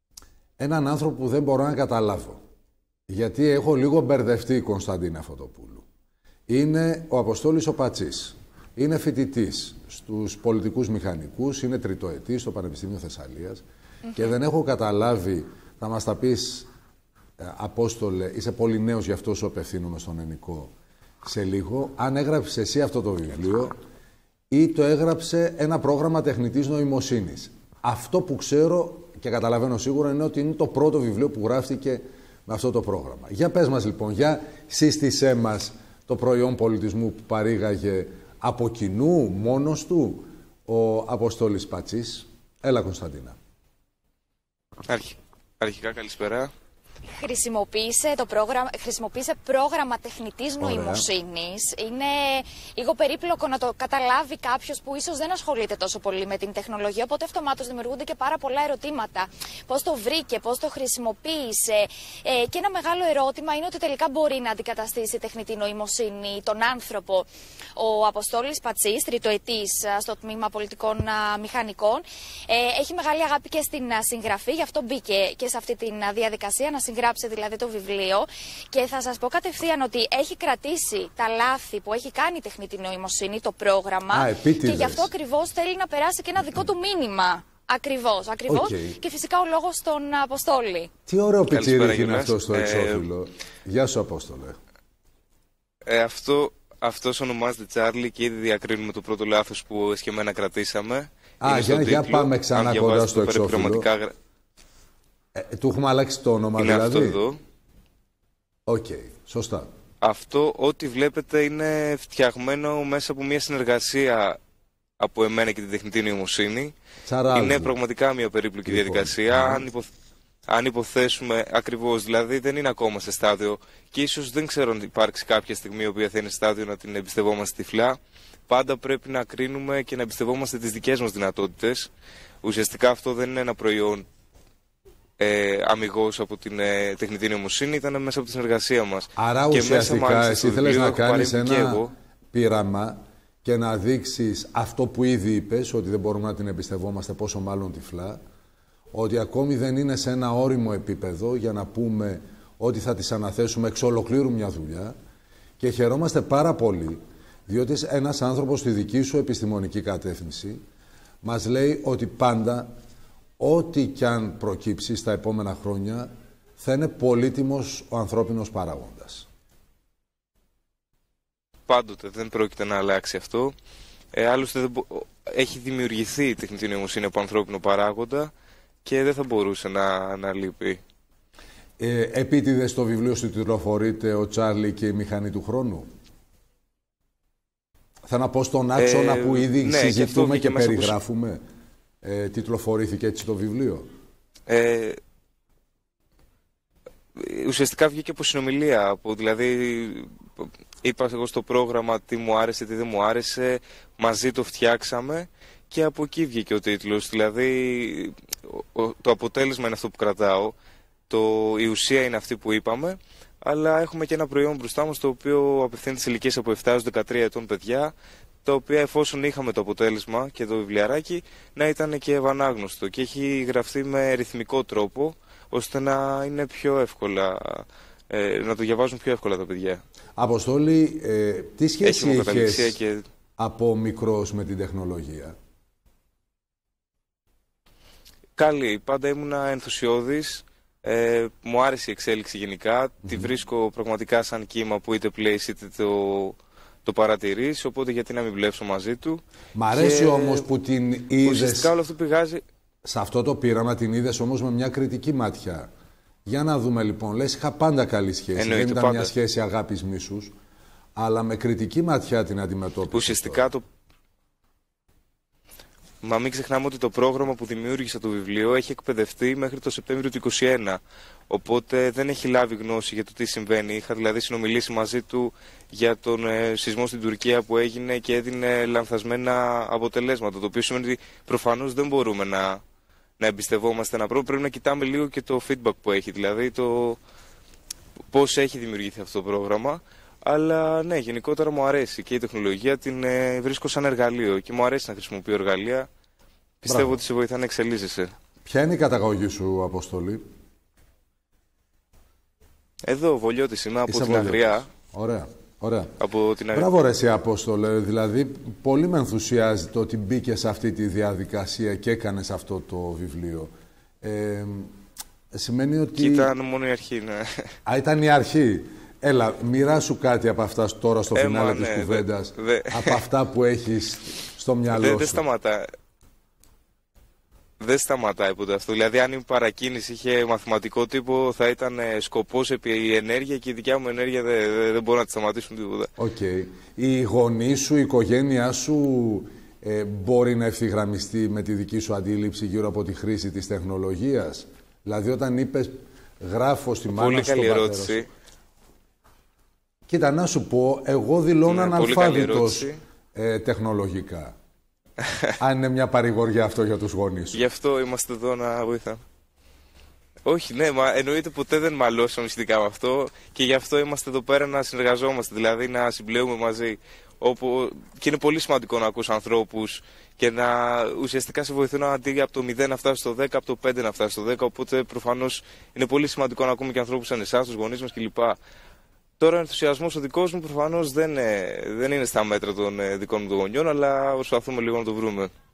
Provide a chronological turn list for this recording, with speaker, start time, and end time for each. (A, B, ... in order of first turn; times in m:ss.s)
0:00.6-0:02.4 A
0:03.1-0:05.8 A
0:06.5-0:16.7 A
0:17.4-0:20.7 A
0:21.2-0:23.7 A
0:24.5-0:43.4 A
0:44.9-0:46.5 B
0:47.1-1:30.9 C
0:50.6-0:51.1 A
1:24.1-1:25.1 A
1:28.5-1:29.0 A
1:31.1-1:34.6 A
1:31.5-1:33.0 B
1:35.9-1:44.2 B
1:41.4-1:43.9 A
1:45.4-1:47.2 A
1:46.6-1:47.4 B
1:48.7-1:49.7 A
1:50.0-1:54.4 B
1:55.0-1:56.7 B
1:57.1-1:57.7 A
1:57.3-1:59.9 B
1:58.7-1:59.7 A
2:00.5-2:08.0 B
2:08.5-2:11.9 B
2:12.4-2:14.0 B
2:15.2-2:21.9 B
2:19.2-2:21.8 A
2:22.3-2:28.2 A
2:28.9-2:35.0 A
2:35.6-2:40.6 A
2:41.2-2:42.7 A
2:43.4-2:49.3 A
2:51.7-2:53.6 B
2:54.1-2:58.3 B
2:58.8-3:00.8 B
3:01.8-3:05.9 A
3:08.1-3:11.4 A
3:08.8-3:11.0 B
3:12.0-3:13.9 A
3:14.5-3:15.0 B
3:17.2-3:30.6 B
3:31.1-3:49.8 B
3:50.2-3:52.8 A
3:51.8-3:53.0 B
3:53.4-3:55.4 A
3:58.4-4:10.5 B
4:09.6-4:11.7 A
4:11.2-4:12.4 B
4:12.8-4:15.7 A
4:16.3-4:20.3 A
4:18.4-4:19.1 B
4:21.0-4:23.5 A
4:22.9-4:23.6 B
4:26.0-4:42.6 B
4:43.2-4:47.0 B
4:48.1-4:55.9 B
4:56.6-4:58.1 B
4:56.7-4:57.0 A
4:58.4-5:00.2 A
5:02.8-5:04.7 B
5:03.9-5:06.0 A
5:06.0-5:06.7 B
5:06.5-5:13.5 A
5:14.0-5:14.7 A
5:15.3-5:16.3 A
5:16.0-5:17.2 B
5:17.6-5:25.2 A
5:21.1-5:23.0 B
5:24.7-5:25.7 B
5:27.6-5:35.9 B
5:36.0-5:48.0 A
5:46.9-5:48.1 B
5:49.9-5:54.3 A
5:51.5-5:52.8 B
5:55.4-5:57.5 A
5:57.3-5:59.0 B
6:00.3-6:18.4 B
6:19.2-6:25.3 B